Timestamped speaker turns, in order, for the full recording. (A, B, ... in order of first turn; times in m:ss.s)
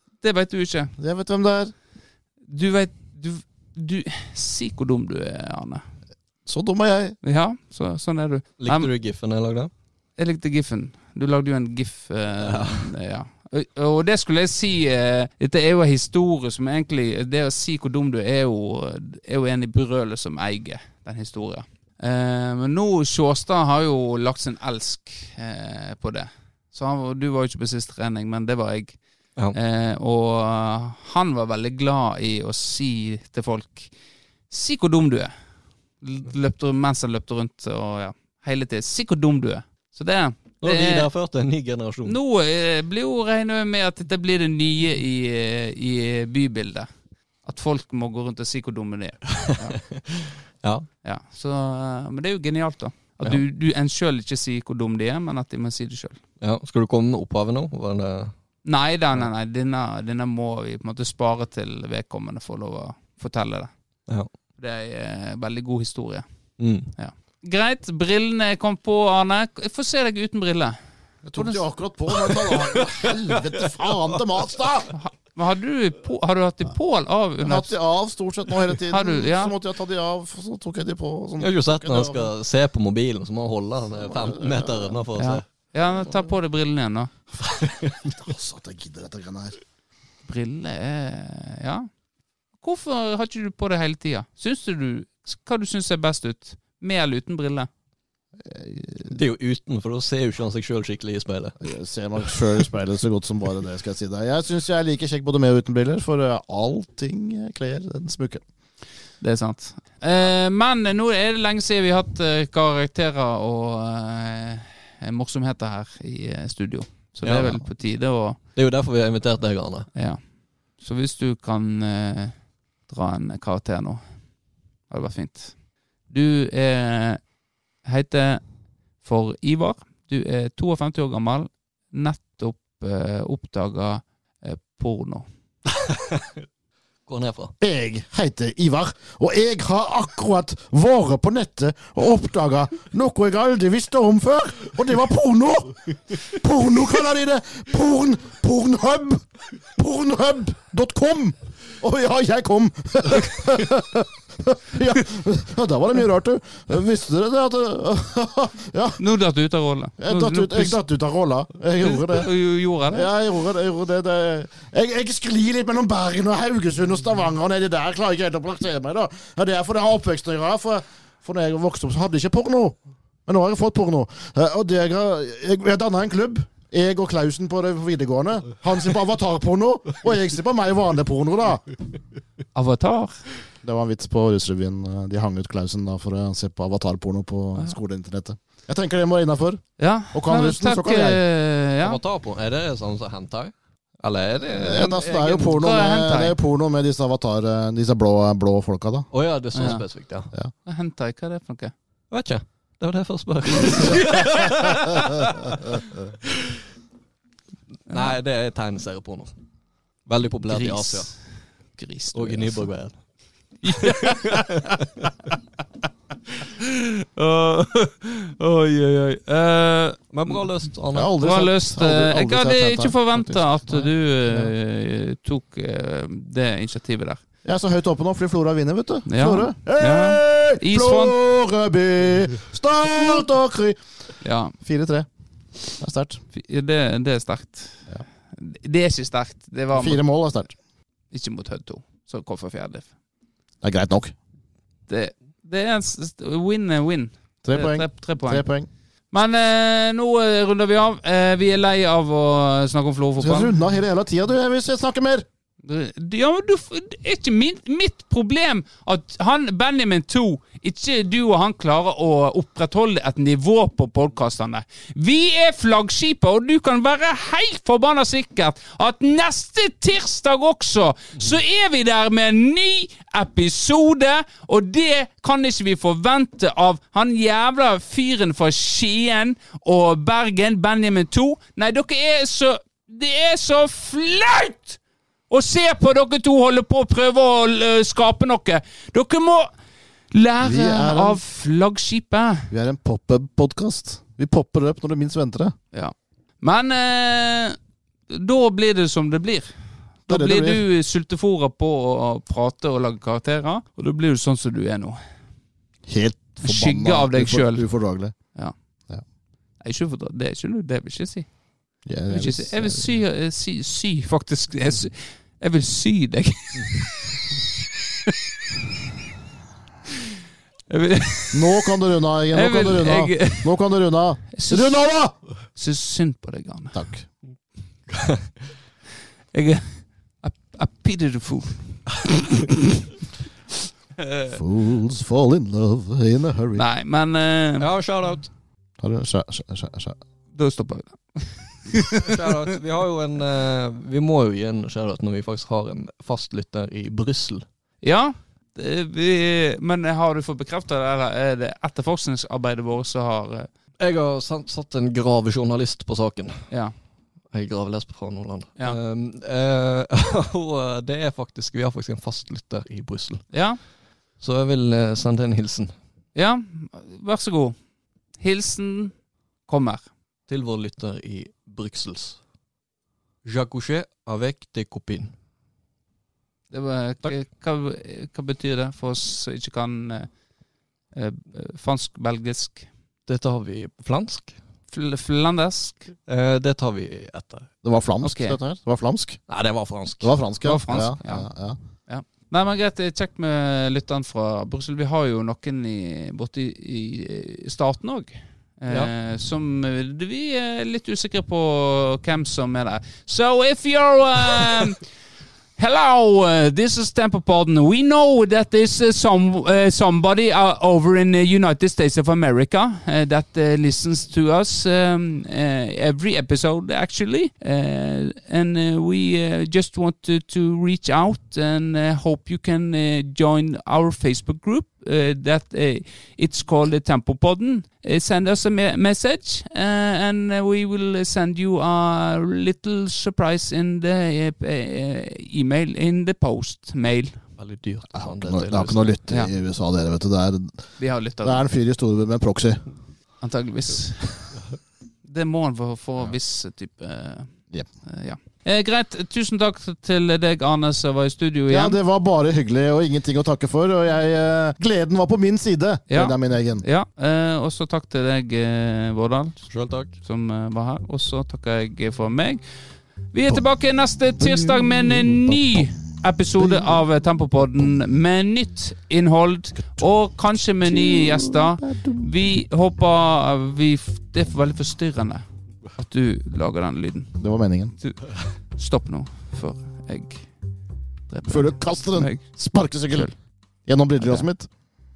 0:00.2-0:00.9 A
0:01.0-0:01.7 B
0:02.5-0:05.8 A
0:06.4-0:07.2 B
0:07.2-0:08.9 A
0:08.6-0:09.7 C
0:10.2-0:29.0 A
0:12.4-0:12.9 C
0:29.5-0:33.9 A
0:34.5-0:35.3 A
0:36.0-0:41.1 A
0:40.6-0:42.2 C
0:42.0-0:46.9 A
0:47.4-0:49.8 A
0:49.4-0:50.9 C
0:51.0-0:56.2 A
0:56.4-0:58.3 C
0:58.6-1:03.7 A
1:04.6-1:06.2 A
1:06.6-1:06.9 C
1:06.9-1:10.8 A
1:11.2-1:14.9 B
1:11.4-1:11.6 A
1:12.3-1:13.7 C
1:14.9-1:17.7 A
1:17.4-1:22.3 B
1:18.9-1:19.5 A
1:21.4-1:25.4 C
1:24.0-1:24.9 B
1:25.2-1:27.1 A
1:26.0-1:26.3 B
1:27.4-1:28.1 C
1:28.1-1:29.6 B
1:30.2-1:31.9 A
1:32.6-1:37.7 A
1:38.4-1:39.2 B
1:39.1-1:41.7 C
1:41.6-1:48.4 B
1:49.2-1:58.4 A
1:57.2-1:57.6 C
1:58.5-1:59.9 C
1:59.9-2:00.2 A
2:00.8-2:04.0 A
2:04.9-2:05.5 A
2:06.1-2:07.2 A
2:07.8-2:08.4 A
2:09.0-2:15.2 A
2:15.8-2:16.4 C
2:17.1-2:17.5 C
2:17.6-2:39.0 B
2:39.0-2:40.8 A
2:40.0-2:42.3 B
2:41.8-2:43.1 A
2:42.9-3:01.7 B
3:02.5-3:03.2 A
3:03.6-3:11.2 B
3:09.8-3:12.0 A
3:11.8-3:15.6 C
3:14.5-3:19.1 B
3:15.5-3:16.4 A
3:19.1-3:20.3 C
3:19.5-3:19.8 A
3:20.6-3:21.7 A
3:22.1-3:26.6 C
3:27.9-3:29.3 C
3:27.9-3:28.1 A
3:30.0-3:31.1 C
3:30.5-3:31.2 A
3:31.7-3:32.7 A
3:32.1-3:33.0 C
3:33.6-3:34.8 A
3:33.6-3:35.1 C
3:37.2-3:40.4 A
3:40.1-3:41.1 C
3:40.9-3:44.5 B
3:41.2-3:47.2 A
3:47.4-3:53.8 B
3:49.0-3:51.2 A
3:54.2-3:54.5 A
3:54.6-3:55.1 B
3:55.8-3:56.2 B
3:56.3-4:00.0 A
3:59.7-4:00.6 B
4:01.1-4:02.8 A
4:03.6-4:04.1 B
4:04.9-4:08.4 A
4:07.4-4:08.7 B
4:09.1-4:13.5 A
4:13.2-4:15.2 B
4:15.6-4:49.5 A
4:50.1-4:52.5 A
4:50.4-4:51.2 B
4:52.5-4:55.5 B
4:55.7-4:59.5 A
5:00.0-5:05.0 A
5:00.1-5:00.6 B
5:05.9-5:08.1 B
5:06.4-5:07.6 A
5:09.6-5:11.3 A
5:11.8-5:12.9 B
5:12.1-5:17.4 A
5:20.7-5:21.7 A
5:21.3-5:25.1 B
5:22.3-5:23.6 A
5:24.3-5:24.8 A
5:25.5-5:26.8 A
5:26.7-5:27.1 B
5:27.9-5:28.3 C
5:29.3-5:32.6 A
5:34.1-5:34.4 A
5:34.3-5:36.6 B
5:36.5-5:37.7 A
5:37.6-5:38.3 C
5:38.8-5:40.0 B
5:40.3-5:42.5 A
5:42.0-5:47.4 C
5:47.8-5:53.5 A
5:53.8-5:56.5 C
5:57.3-6:03.3 C
6:03.3-6:03.6 A
6:04.2-6:05.7 C
6:06.1-6:07.6 A
6:08.2-6:08.9 A
6:09.5-6:09.8 A
6:10.3-6:12.2 C
6:13.2-6:15.1 C
6:16.5-6:20.1 A
6:20.9-6:22.7 A
6:23.1-6:24.4 C
6:24.7-6:25.9 A
6:26.1-6:27.5 C
6:27.6-6:29.2 B
6:28.0-6:28.4 A
6:29.3-6:30.1 C
6:30.0-6:31.6 B
6:30.4-6:31.3 A
6:31.8-6:44.8 A
6:45.6-7:17.2 A
7:17.4-7:19.0 C
7:17.9-7:20.7 B
7:20.8-7:21.4 A
7:21.2-7:22.6 B
7:23.2-7:24.4 A
7:25.0-7:27.3 A
7:27.8-7:31.8 A
7:31.5-7:36.6 B
7:35.9-7:39.5 A
7:39.5-7:39.9 C
7:40.0-7:42.4 A
7:43.1-7:55.2 A
7:44.2-7:46.8 B
7:50.6-7:52.1 B
7:55.8-7:57.2 A
7:57.2-7:57.7 B
7:58.5-8:00.3 A
8:01.1-8:02.2 A
8:01.2-8:03.1 B
8:03.6-8:04.5 B
8:04.0-8:04.2 A